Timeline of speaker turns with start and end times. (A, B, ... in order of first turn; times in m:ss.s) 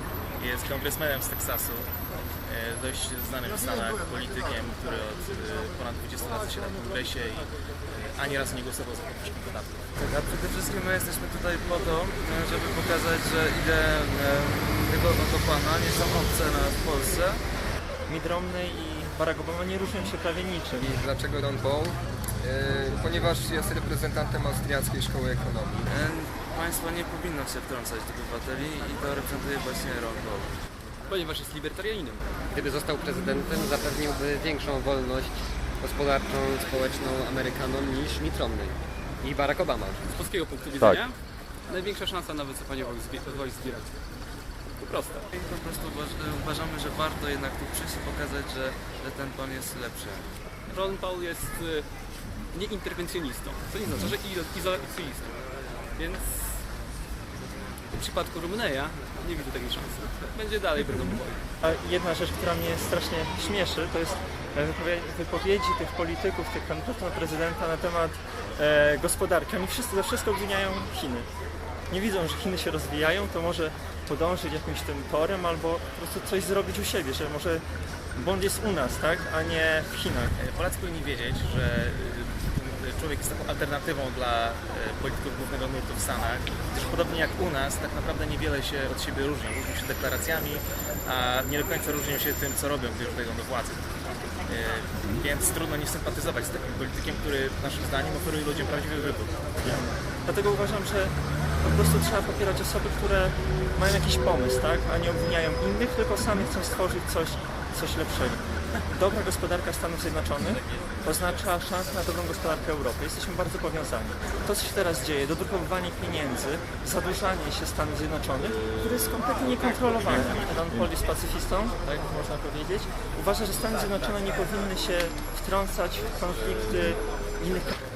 0:00.4-0:01.9 A
0:02.4-0:09.9 A
0:10.0-0:17.4 B
0:18.1-0:20.9 C
0:20.8-0:25.9 D
0:25.9-0:30.6 B
0:31.1-0:32.2 E
0:32.5-0:40.0 F
0:40.1-0:43.9 E
0:44.8-0:45.3 E
0:45.3-0:50.3 B
0:50.6-0:51.9 E
0:52.5-0:55.4 E
0:56.0-0:56.6 E
0:57.9-1:01.4 E
1:01.6-1:11.3 C
1:11.9-1:17.6 C
1:18.1-1:20.3 C
1:20.4-1:33.9 A
1:34.4-1:39.3 A
1:39.6-2:07.8 C